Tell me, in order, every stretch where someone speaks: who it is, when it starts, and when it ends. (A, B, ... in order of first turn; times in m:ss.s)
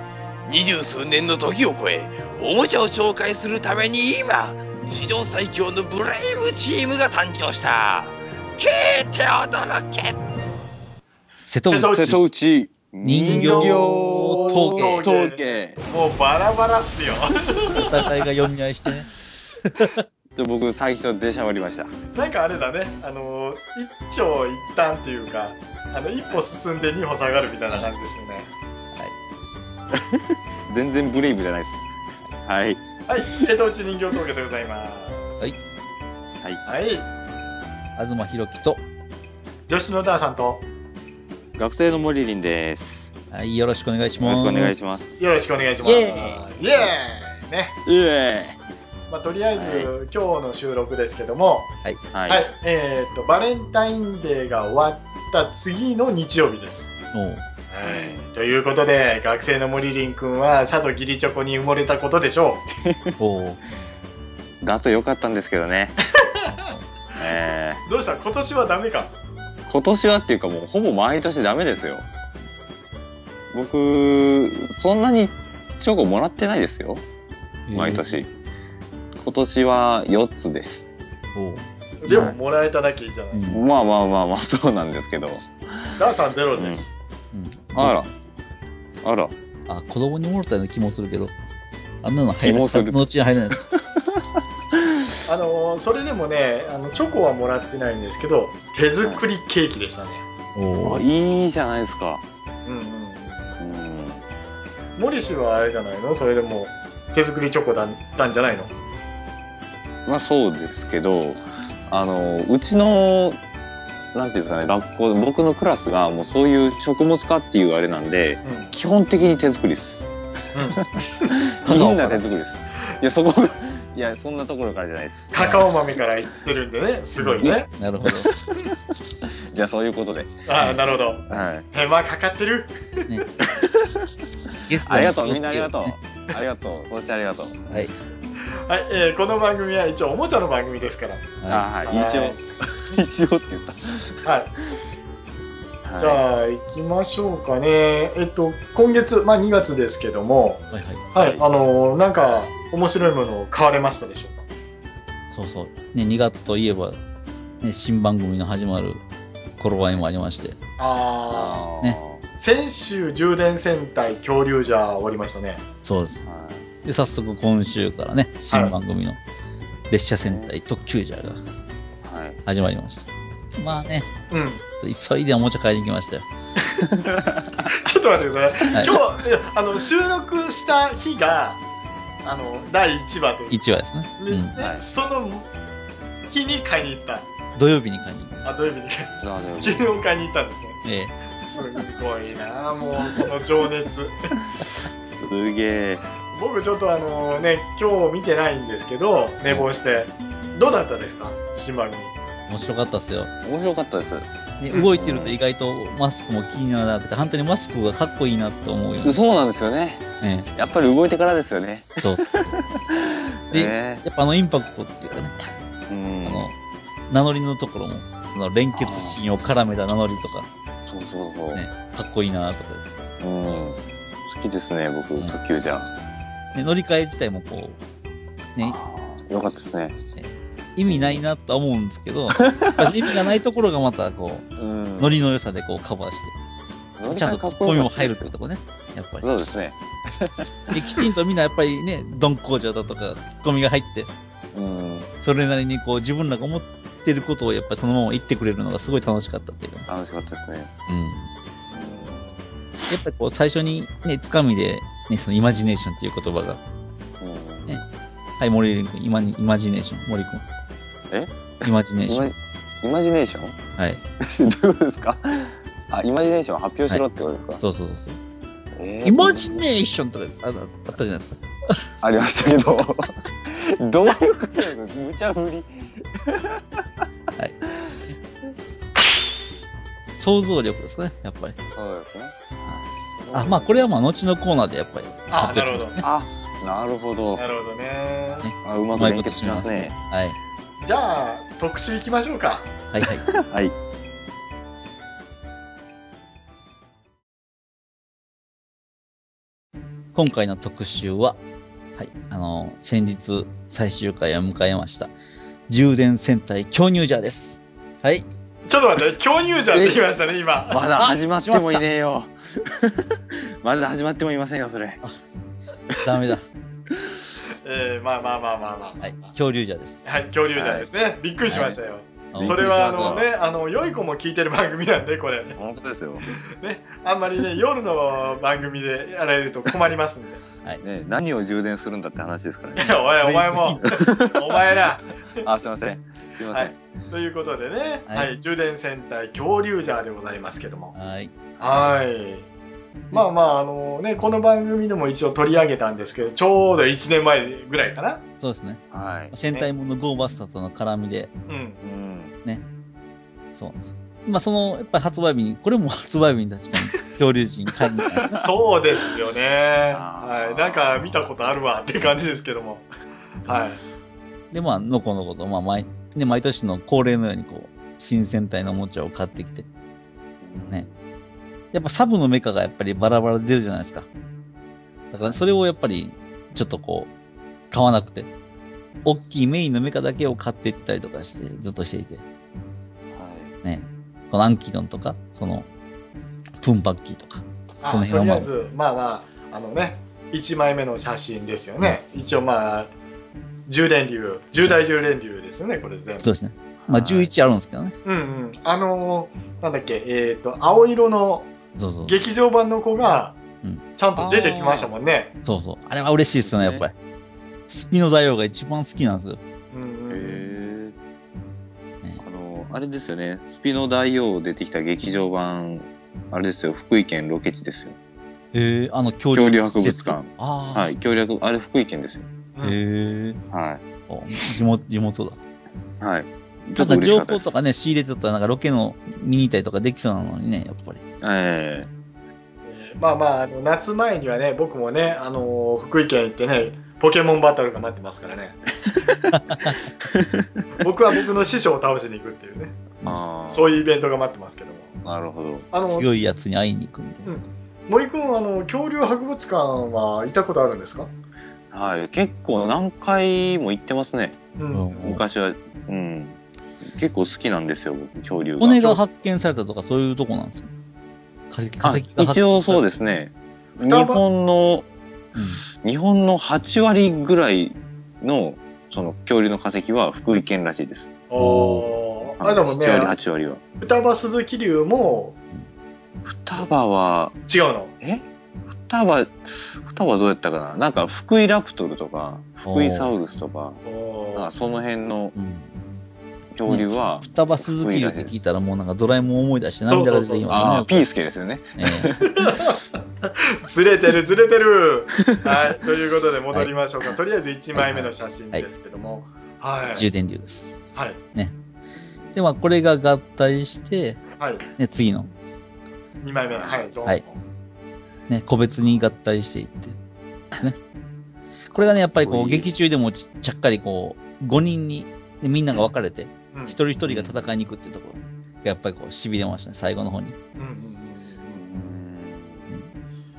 0:00.5-0:10.2 A
0:11.4-0:12.2 B
0:11.7-0:12.2 C
0:11.9-0:15.8 D
0:13.0-0:15.0 B
0:13.2-0:18.0 C
0:17.7-0:19.1 B
0:19.6-0:20.0 B
0:20.4-0:21.9 D
0:22.2-0:28.5 C
0:29.9-0:31.9 D
0:32.4-0:33.5 D
0:33.1-0:35.4 C
0:36.6-0:37.1 C
0:38.0-0:38.8 B
0:39.7-0:40.6 C
0:41.6-0:43.1 D
0:43.3-0:45.1 B
0:44.2-0:45.1 D
0:45.2-0:47.8 C
0:45.8-0:46.4 B
0:47.8-0:48.6 D
0:49.1-0:51.7 C
0:49.6-0:49.9 D
0:52.1-0:52.5 D
0:52.3-0:56.9 C
0:57.1-0:57.4 B
0:57.7-1:02.6 C
0:57.8-0:58.3 D
1:02.9-1:03.2 D
1:03.2-1:03.6 B
1:04.6-1:06.0 D
1:06.2-1:06.6 C
1:07.2-1:07.8 D
1:07.8-1:09.1 C
1:09.7-1:12.1 D
1:13.5-1:17.0 D
1:17.7-1:18.1 B
1:17.7-1:18.3 D
1:19.2-1:20.8 D
1:21.4-1:22.3 B
1:22.0-1:23.5 C
1:22.1-1:22.4 D
1:23.3-1:23.6 B
1:23.5-1:25.8 D
1:26.0-1:26.9 C
1:26.6-1:26.8 D
1:27.3-1:28.0 B
1:27.8-1:28.1 D
1:29.0-1:29.3 D
1:29.7-1:31.3 B
1:32.0-1:33.6 B
1:32.4-1:34.2 D
1:34.7-1:35.2 D
1:35.3-1:40.2 C
1:40.6-1:41.1 B
1:40.8-1:42.2 D
1:42.6-1:43.5 C
1:43.6-1:44.2 D
1:45.0-1:48.7 C
1:50.1-1:53.4 D
1:54.1-2:00.1 D
1:58.4-1:58.7 C
2:00.5-2:01.3 C
2:00.7-2:05.4 D
2:01.6-2:02.3 B
2:05.3-2:07.7 C
2:05.4-2:05.6 B
2:07.2-2:08.3 B
2:08.0-2:10.8 D
2:10.5-2:13.1 C
2:11.3-2:11.7 D
2:13.6-2:14.0 D
2:14.7-2:16.0 B
2:14.9-2:17.8 D
2:18.7-2:22.4 C
2:21.4-2:21.7 B
2:21.5-2:24.2 D
2:24.2-2:24.5 C
2:25.8-2:26.2 D
2:26.0-2:34.4 C
2:30.7-2:31.0 B
2:31.2-2:31.4 D
2:35.3-2:37.0 B
2:37.6-2:39.0 B
2:39.6-2:40.6 B
2:40.8-2:41.6 C
2:41.3-2:42.2 D
2:42.4-2:45.6 C
2:45.8-2:46.2 B
2:46.2-2:46.7 D
2:46.8-2:49.2 B
2:49.9-2:51.4 B
2:50.3-2:50.5 D
2:52.0-2:52.4 D
2:52.5-2:54.1 B
2:54.3-2:54.6 C
2:54.8-2:56.3 B
2:57.0-2:57.3 D
2:57.7-3:01.6 C
3:02.2-3:03.6 C
3:03.5-3:04.6 B
3:04.2-3:05.5 C
3:04.6-3:04.8 D
3:06.3-3:07.3 C
3:07.6-3:08.4 B
3:08.4-3:10.8 C
3:09.2-3:09.8 D
3:10.8-3:11.1 B
3:11.5-3:14.1 C
3:15.0-3:16.0 D
3:16.3-3:22.1 C
3:22.5-3:23.3 B
3:23.4-3:25.4 D
3:24.6-3:29.2 B
3:29.0-3:34.0 D
3:30.2-3:30.5 B
3:33.5-3:35.4 B
3:35.9-3:36.4 D
3:36.2-3:36.6 B
3:37.1-3:40.5 B
3:38.7-3:39.2 D
3:40.9-3:41.6 D
3:41.5-3:42.9 B
3:43.2-3:45.9 D
3:43.5-3:43.9 B
3:46.6-3:47.8 B
3:48.6-3:50.0 D
3:50.2-3:54.5 B
3:50.9-3:51.2 D
3:52.4-3:52.9 D
3:54.6-3:55.2 D
3:55.0-3:56.4 B
3:57.0-3:58.3 D
3:57.1-3:59.3 B
3:59.2-4:01.1 D
4:00.7-4:04.1 B
4:04.5-4:05.1 D
4:05.2-4:09.9 B
4:09.9-4:10.7 D
4:10.9-4:11.3 B
4:11.7-4:12.2 D
4:11.9-4:12.2 C
4:12.9-4:16.6 B
4:17.2-4:17.8 D
4:18.4-4:20.4 B
4:21.1-4:23.6 D
4:21.6-4:22.3 B
4:24.2-4:27.6 D
4:27.6-4:28.2 B
4:28.8-4:29.6 D
4:29.0-4:31.8 B
4:32.0-4:36.6 D
4:37.7-4:38.0 D
4:40.1-4:41.6 B
4:41.8-4:42.4 D
4:43.2-4:43.9 D
4:43.3-4:46.0 B
4:45.3-4:46.0 C
4:46.0-4:47.4 D
4:47.4-4:48.4 C
4:48.4-4:50.4 B
4:48.6-4:49.9 D
4:50.8-4:52.7 C
4:52.9-4:53.2 B
4:53.3-4:53.8 D
5:00.2-5:01.4 B
5:02.0-5:05.1 B
5:05.7-5:08.3 B
5:08.7-5:10.8 C
5:09.7-5:10.0 D
5:10.7-5:15.0 D
5:11.0-5:11.9 B
5:16.0-5:16.5 B
5:17.6-5:19.3 C
5:19.0-5:20.1 B
5:20.0-5:25.6 C
5:20.5-5:20.9 D
5:21.5-5:21.8 B
5:22.3-5:23.2 B
5:22.4-5:23.3 D
5:25.6-5:26.3 D
5:26.6-5:30.4 C
5:30.8-5:33.0 D
5:32.8-5:35.4 C
5:33.2-5:33.8 B
5:33.8-5:34.5 D
5:35.4-5:36.8 D
5:36.5-5:40.9 C
5:41.0-5:41.3 B
5:41.6-5:41.9 D
5:41.6-5:42.5 C
5:43.1-5:48.2 C
5:48.4-5:51.3 B
5:48.9-5:49.3 D
5:51.5-5:51.8 C
5:51.8-5:52.3 D
5:53.6-5:58.3 B
5:58.3-6:02.9 C
5:59.9-6:01.3 D
6:03.5-6:03.8 C
6:04.5-6:09.7 B
6:10.4-6:11.0 D
6:11.7-6:14.1 B
6:15.1-6:17.1 B
6:17.7-6:18.3 B
6:19.0-6:22.2 B
6:23.1-6:23.6 D
6:23.6-6:25.7 B
6:26.6-6:28.5 B
6:27.8-6:32.9 C
6:33.7-6:36.3 C
6:36.2-6:38.0 B
6:36.8-6:37.3 D
6:38.0-6:41.5 C
6:41.8-6:42.1 B
6:42.0-6:43.4 C
6:44.0-6:45.3 C
6:44.2-6:44.9 D
6:45.4-6:46.9 B
6:46.4-6:46.9 D
6:47.7-6:49.4 B
6:49.7-6:50.6 C
6:50.1-6:51.0 D
6:52.2-6:58.0 D
6:58.5-7:01.0 B
6:59.3-7:02.3 D
7:02.6-7:03.4 B
7:03.5-7:03.8 D
7:04.1-7:05.4 B
7:06.0-7:07.6 D
7:06.8-7:11.0 B
7:11.2-7:11.9 D
7:12.6-7:18.6 C
7:18.9-7:19.2 D
7:19.3-7:19.9 B
7:20.1-7:20.6 D
7:20.8-7:22.8 C
7:23.0-7:23.8 D
7:23.5-7:24.9 C
7:25.0-7:25.7 D
7:25.7-7:26.1 C
7:25.9-7:27.3 B
7:27.3-7:31.1 C
7:31.7-7:34.4 D
7:34.6-7:35.0 C
7:34.7-7:35.2 B
7:35.0-7:39.0 D
7:38.6-7:40.7 B
7:41.5-7:42.9 B
7:41.8-7:44.8 D
7:43.8-7:44.2 C
7:45.4-7:45.6 B
7:45.7-7:51.1 D
7:51.3-7:53.2 C
7:51.4-7:52.0 B
7:52.4-7:53.6 D
7:53.8-7:55.4 C
7:56.2-7:57.4 D
7:57.5-7:57.9 C
7:58.0-8:03.8 D
8:02.7-8:03.1 B
8:03.9-8:04.5 C
8:04.3-8:05.4 D
8:05.4-8:05.7 B
8:06.6-8:08.4 D
8:06.7-8:10.9 B
8:09.9-8:10.9 C
8:10.5-8:12.3 D
8:11.8-8:12.2 B
8:12.4-8:20.1 C
8:17.7-8:18.7 B
8:20.0-8:20.7 B
8:22.0-8:22.4 D
8:22.3-8:24.2 B
8:24.4-8:24.7 C
8:24.8-8:25.3 B
8:26.2-8:27.4 C
8:26.5-8:26.9 D
8:28.3-8:30.0 B
8:31.7-8:40.4 B
8:31.7-8:32.7 D
8:36.5-8:36.8 C
8:37.0-8:37.5 D
8:40.6-8:41.6 C
8:41.5-8:42.7 D